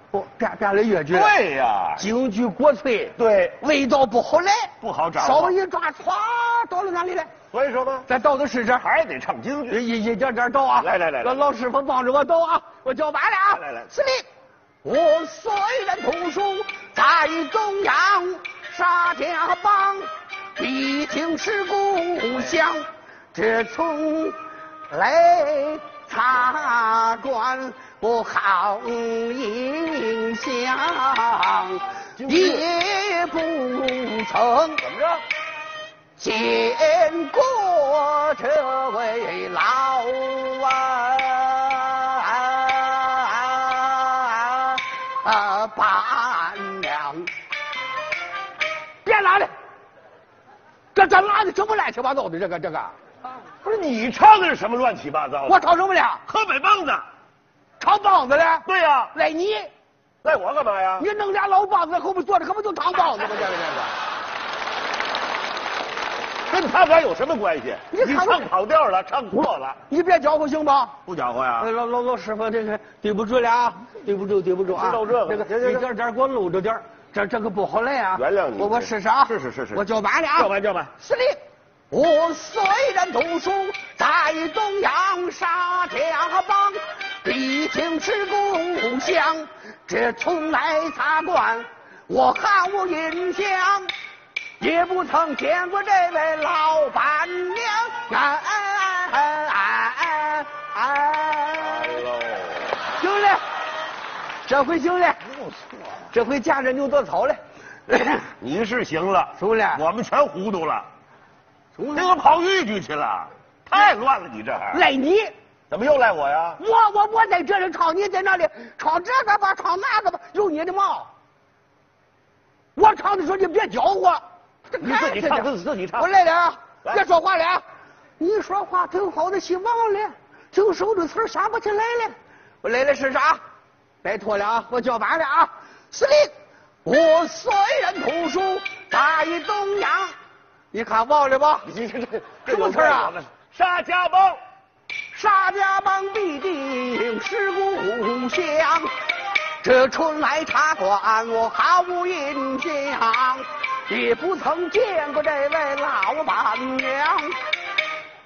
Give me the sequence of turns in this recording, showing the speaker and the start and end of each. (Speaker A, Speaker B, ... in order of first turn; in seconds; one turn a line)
Speaker A: 0.1-1.3
Speaker B: 1.1-2.1
Speaker A: 2.0-7.3
Speaker B: 3.2-3.6
Speaker B: 4.8-5.5
Speaker B: 7.5-8.1
Speaker A: 8.1-8.9
Speaker B: 8.8-9.8
Speaker A: 9.7-14.3
Speaker B: 10.8-11.4
Speaker B: 13.5-13.9
Speaker A: 14.8-24.4
Speaker A: 24.9-34.9
Speaker B: 32.2-32.7
Speaker B: 34.8-35.2
Speaker A: 36.2-47.3
Speaker A: 49.0-49.5
Speaker A: 50.9-52.9
Speaker B: 53.6-55.6
Speaker A: 55.5-56.2
Speaker B: 56.3-57.0
Speaker A: 57.8-59.7
Speaker B: 58.6-59.1
Speaker B: 60.2-61.1
Speaker A: 61.0-64.0
Speaker B: 66.5-69.8
Speaker A: 67.9-68.5
Speaker A: 69.9-71.0
Speaker B: 71.1-71.7
Speaker A: 71.6-81.4
Speaker B: 74.7-75.9
Speaker B: 78.2-79.8
Speaker B: 80.4-80.9
Speaker A: 81.9-93.9
Speaker A: 94.6-102.0
Speaker B: 101.6-102.8
Speaker A: 103.0-103.4
Speaker A: 104.5-105.3
Speaker A: 106.1-108.3
Speaker B: 108.4-110.9
Speaker A: 109.4-109.8
Speaker A: 111.8-112.2
Speaker B: 112.0-114.8
Speaker A: 114.7-115.3
Speaker B: 115.7-116.6
Speaker A: 116.6-121.1
Speaker A: 122.8-127.6
Speaker B: 124.8-126.1
Speaker A: 128.2-133.4
Speaker A: 134.0-136.3
Speaker A: 136.8-140.2
Speaker A: 140.7-141.7
Speaker B: 141.7-144.4
Speaker A: 142.5-143.2
Speaker A: 145.1-148.9
Speaker A: 149.6-157.4